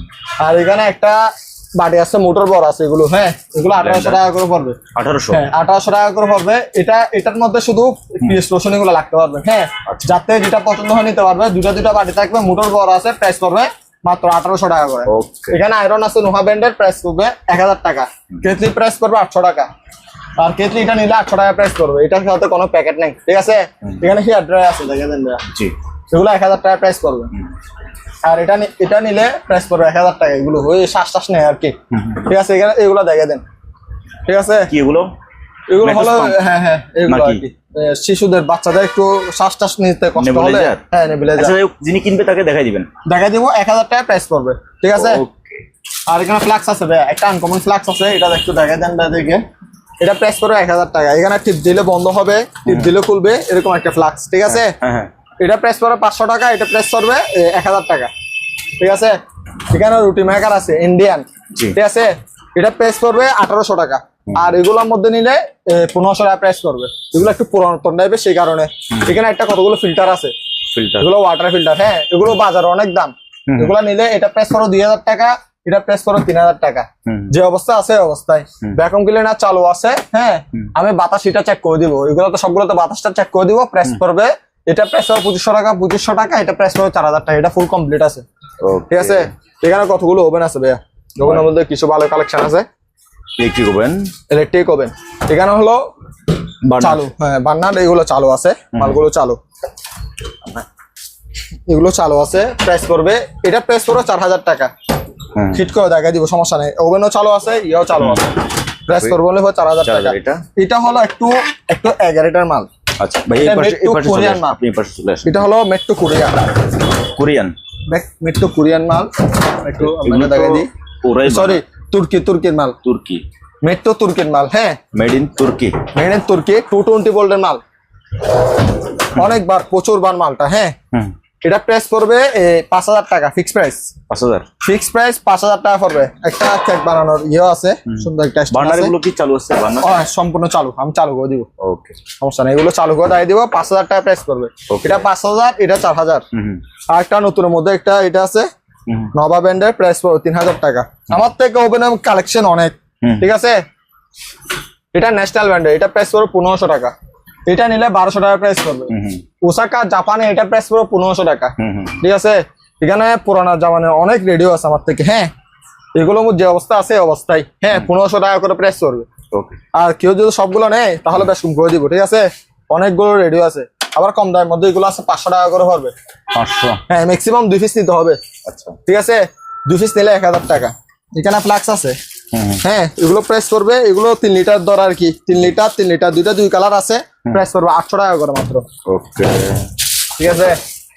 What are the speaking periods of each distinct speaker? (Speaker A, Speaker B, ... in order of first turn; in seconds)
Speaker A: 0.4-4.8, 5.3-19.7, 20.4-25.4, 26.1-27.3, 28.2-33.4, 34.3-34.7, 35.7-41.5, 43.1-45.2, 46.1-49.5, 50.0-54.7, 55.4-58.1, 58.8-59.2, 59.7-70.3, 71.0-88.2, 88.9-92.7, 94.3-95.8, 96.8-99.4, 101.7-104.7, 105.5-108.3, 108.9-112.7, 113.4-114.6, 115.2-116.5, 117.9-120.7, 121.2-122.8, 123.6-124.8, 125.9-127.6, 129.1-130.8, 131.4-133.9, 134.6-138.9, 139.8-141.5, 142.2-146.2, 146.9-148.5, 149.1-153.6, 154.9-156.9, 157.5-165.3, 165.9-169.1, 169.7-175.9, 176.9-178.2, 178.9-182.0, 182.6-188.7, 190.2-190.6
Speaker B: 3.8-4.2, 5.0-5.4, 15.1-15.6, 25.5-25.7, 31.9-32.3, 34.7-35.1, 35.8-36.4, 37.1-37.4, 40.2-40.8, 41.4-42.9, 44.9-45.6, 52.7-52.9, 54.5-55.1, 64.3-64.5, 70.7-71.1, 73.5-73.8, 77.1-77.4, 88.6-89.3, 93.4-94.1, 96.7-97.0, 98.7-99.0, 105.3-105.7, 108.0-108.3, 108.9-109.2, 109.8-110.4, 113.0-115.3, 117.1-117.5, 119.8-121.6, 122.8-123.2, 124.9-125.8, 134.1-134.5, 137.9-139.9, 141.6-142.0, 144.7-145.0, 146.3-146.6, 148.9-149.1, 158.9-159.2, 161.6-162.0, 169.3-169.6, 176.3-176.8, 178.5-178.8, 182.3-182.6, 188.9-189.7